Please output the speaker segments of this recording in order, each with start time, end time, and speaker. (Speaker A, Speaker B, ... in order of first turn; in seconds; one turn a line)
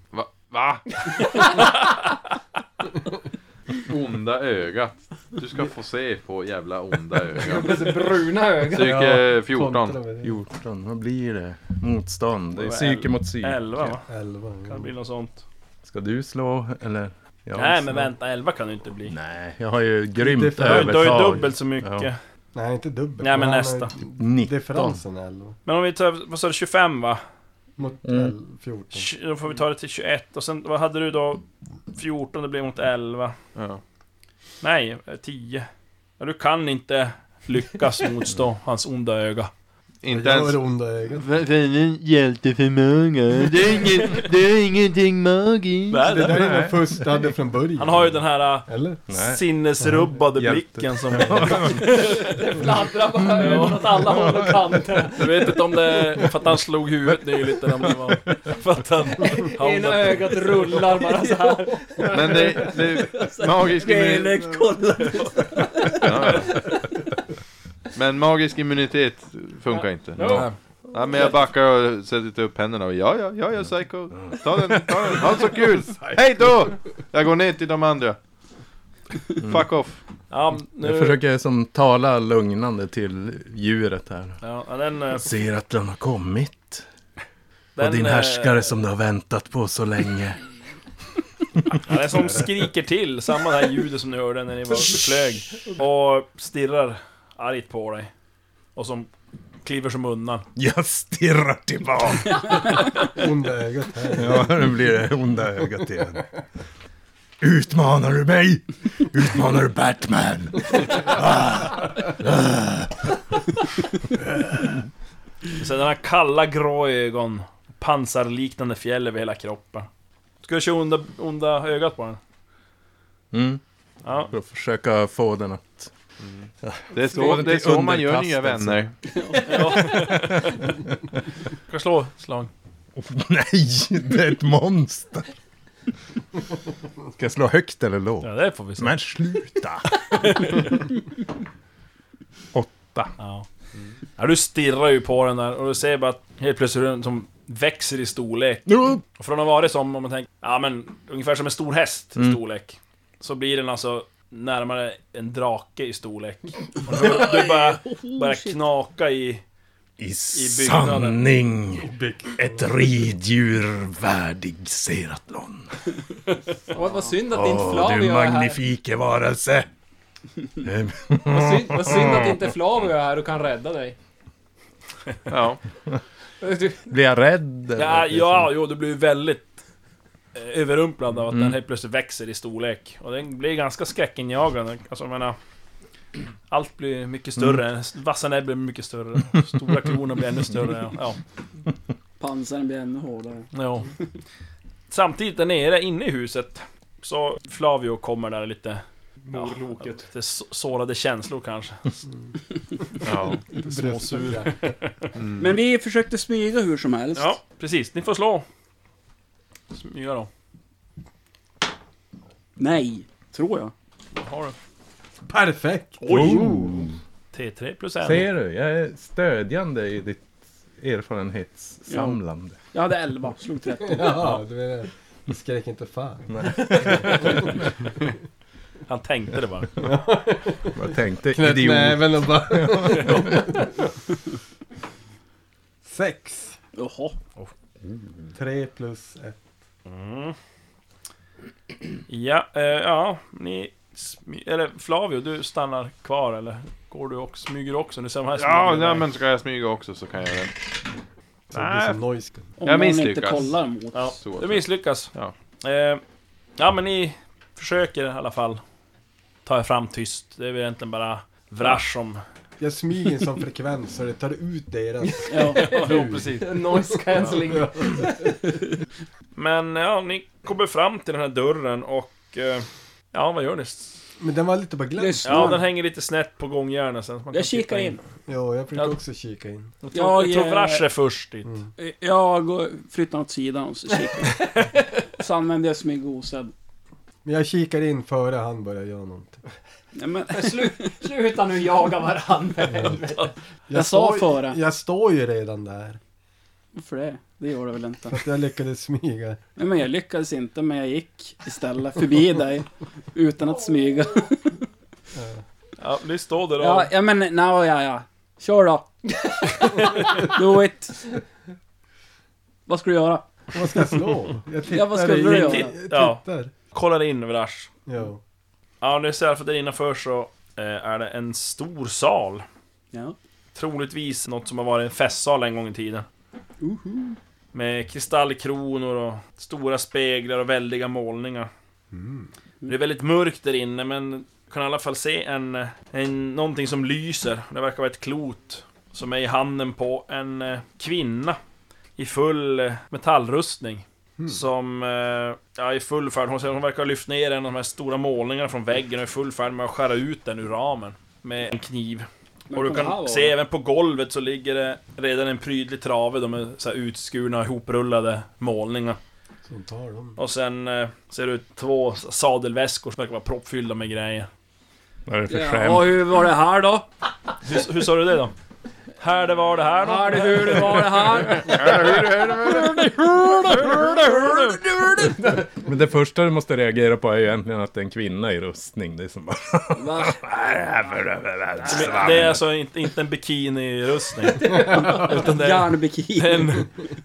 Speaker A: 0.1-0.8
Speaker A: 3.8-10.0
Speaker B: 7.4-8.9
Speaker C: 8.7-10.3
Speaker D: 10.2-13.9
Speaker E: 12.6-14.1
Speaker C: 14.0-14.9
Speaker E: 14.7-15.4
Speaker D: 15.8-18.1
Speaker E: 17.5-19.1
Speaker D: 19.1-22.1
Speaker C: 20.2-21.5
Speaker E: 20.6-22.2
Speaker C: 22.5-25.6
Speaker E: 23.2-23.9
Speaker D: 24.2-25.0
Speaker E: 25.6-27.2
Speaker C: 27.8-29.1
Speaker D: 28.0-28.3
Speaker E: 28.9-33.4
Speaker A: 33.5-33.8
Speaker E: 34.6-35.7
Speaker E: 36.2-39.5
Speaker A: 40.0-46.2
Speaker C: 40.1-41.2
Speaker E: 45.9-46.5
Speaker C: 46.0-49.0
Speaker D: 46.3-46.9
Speaker E: 47.8-52.4
Speaker D: 49.1-52.1
Speaker B: 51.8-55.5
Speaker E: 53.3-54.0
Speaker D: 54.1-54.5
Speaker E: 55.2-60.9
Speaker B: 59.4-62.8
Speaker A: 62.1-64.6
Speaker F: 62.1-66.4
Speaker A: 66.0-66.6
Speaker A: 67.9-78.2
Speaker B: 69.7-70.5
Speaker E: 70.2-70.5
Speaker D: 74.1-74.4
Speaker C: 75.4-76.4
Speaker A: 79.3-80.0
Speaker D: 79.4-79.7
Speaker E: 80.3-81.2
Speaker D: 80.8-84.4
Speaker E: 84.4-85.2
Speaker D: 85.1-86.8
Speaker E: 87.8-88.7
Speaker D: 87.8-90.4
Speaker E: 91.7-98.1
Speaker C: 91.9-92.4
Speaker E: 98.7-99.1
Speaker E: 99.6-100.4
Speaker D: 100.5-102.9
Speaker C: 103.0-104.7
Speaker D: 104.1-106.2
Speaker D: 107.4-113.1
Speaker E: 115.6-119.9
Speaker E: 120.4-122.2
Speaker D: 123.3-123.6
Speaker E: 124.0-124.3
Speaker D: 124.2-125.9
Speaker A: 126.2-128.9
Speaker D: 126.6-128.9
Speaker F: 129.1-130.0
Speaker E: 129.4-130.6
Speaker D: 129.9-130.5
Speaker E: 131.7-132.5
Speaker D: 132.9-135.3
Speaker D: 137.2-139.9
Speaker E: 138.2-138.9
Speaker E: 140.0-140.7
Speaker D: 142.5-143.1
Speaker E: 143.2-143.4
Speaker E: 144.2-159.4
Speaker D: 148.7-149.0
Speaker F: 156.9-158.6
Speaker D: 160.0-165.7
Speaker E: 160.3-161.2
Speaker C: 161.8-162.6
Speaker B: 166.7-168.6
Speaker F: 166.8-167.1
Speaker D: 167.3-169.7
Speaker D: 170.6-172.4
Speaker B: 171.3-173.9
Speaker A: 175.3-175.6
Speaker B: 176.4-176.9
Speaker D: 176.9-178.5
Speaker E: 177.8-179.5
Speaker E: 180.3-185.3
Speaker D: 181.3-181.6
Speaker E: 186.5-191.2
Speaker F: 192.2-193.5
Speaker E: 193.5-193.9
Speaker E: 194.9-202.0
Speaker B: 199.2-200.1
Speaker A: 203.0-203.4
Speaker E: 203.5-205.1
Speaker C: 203.5-204.8
Speaker A: 205.2-205.5
Speaker F: 205.4-207.4
Speaker E: 207.1-208.4
Speaker E: 209.7-210.3
Speaker F: 212.6-213.7
Speaker E: 214.1-214.5
Speaker C: 215.3-216.4
Speaker E: 216.0-216.7
Speaker D: 216.1-217.0
Speaker A: 216.2-216.7
Speaker E: 217.3-218.3
Speaker D: 218.0-222.6
Speaker F: 221.9-222.2
Speaker F: 222.7-224.3
Speaker C: 223.8-227.7
Speaker D: 226.3-227.5
Speaker E: 228.9-229.7
Speaker C: 229.8-233.9
Speaker D: 230.8-233.5
Speaker C: 235.8-236.6
Speaker F: 236.7-237.2
Speaker C: 238.3-239.4
Speaker E: 239.8-240.3
Speaker E: 242.1-249.1
Speaker A: 248.3-250.6
Speaker C: 251.5-252.6
Speaker A: 251.7-251.9
Speaker F: 252.6-254.2
Speaker A: 252.6-253.5
Speaker E: 253.9-256.0
Speaker A: 254.2-255.3
Speaker E: 256.6-258.6
Speaker E: 259.4-262.2
Speaker C: 262.6-268.0
Speaker F: 265.3-266.1
Speaker B: 265.4-268.4
Speaker E: 265.6-266.5
Speaker E: 269.4-273.9
Speaker C: 274.2-275.6
Speaker F: 275.0-275.6
Speaker E: 275.2-278.0
Speaker F: 277.3-278.0
Speaker C: 278.3-279.8
Speaker E: 279.8-281.5
Speaker F: 279.9-280.9
Speaker C: 281.4-281.7
Speaker F: 281.8-284.6
Speaker F: 285.1-286.5
Speaker C: 287.2-289.4
Speaker F: 289.9-290.9
Speaker B: 290.3-293.3
Speaker C: 293.7-296.0
Speaker F: 293.7-294.6
Speaker F: 296.7-298.2
Speaker C: 298.1-299.4
Speaker F: 299.6-304.5
Speaker C: 305.1-305.4
Speaker E: 305.8-306.9
Speaker F: 306.6-308.9
Speaker F: 309.7-311.0
Speaker F: 312.7-313.3
Speaker C: 313.5-316.5
Speaker F: 314.7-315.7
Speaker E: 315.2-317.7
Speaker C: 317.9-318.2
Speaker E: 318.8-322.4
Speaker E: 323.5-326.1
Speaker F: 326.6-327.2
Speaker E: 327.5-331.5
Speaker C: 331.9-332.3
Speaker E: 332.6-341.4
Speaker E: 342.0-359.0
Speaker F: 352.5-353.3
Speaker C: 359.4-360.2
Speaker E: 360.2-364.3
Speaker D: 365.1-366.0
Speaker F: 365.3-366.9
Speaker E: 367.4-368.3
Speaker E: 369.0-371.5
Speaker F: 369.8-371.7
Speaker B: 370.1-371.4
Speaker A: 371.5-372.7
Speaker F: 373.2-375.1
Speaker E: 373.6-374.2
Speaker D: 375.6-382.4
Speaker F: 379.7-380.2
Speaker E: 381.7-386.7
Speaker F: 384.4-386.7